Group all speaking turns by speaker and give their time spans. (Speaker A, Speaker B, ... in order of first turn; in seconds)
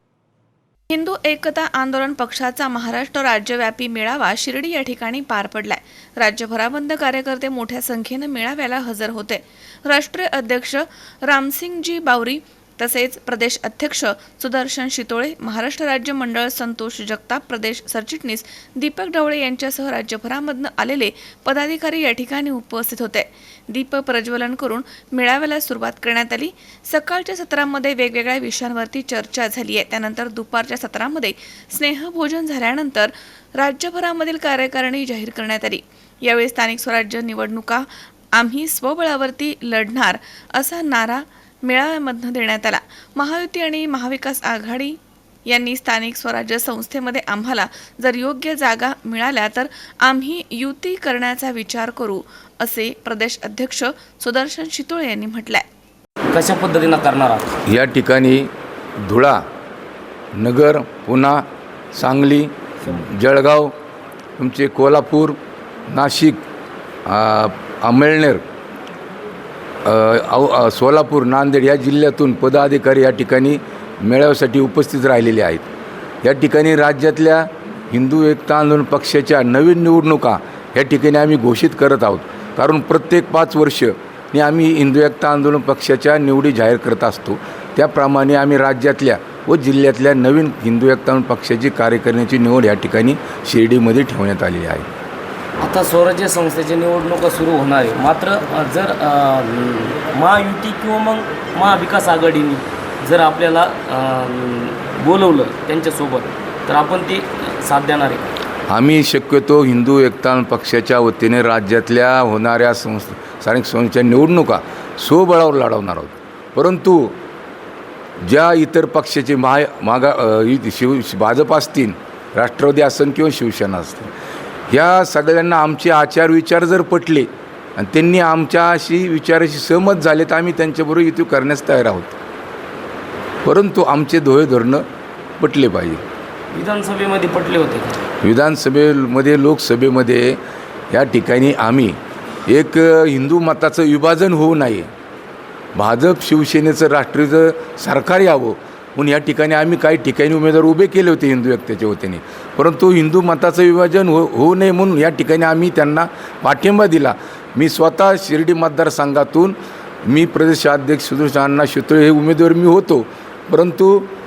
Speaker A: 0.9-55.6
Speaker B: 56.3-57.5, 95.6-108.2, 136.5-138.0
Speaker C: 57.7-58.5, 59.0-59.4, 60.4-63.7, 64.4-66.4, 67.1-68.4, 69.8-75.7, 76.2-94.9, 108.7-117.2, 118.2-124.1, 124.7-132.1, 133.4-134.8, 135.4-136.0, 138.2-140.4, 140.9-142.0, 142.5-144.9, 145.8-159.6, 160.1-164.1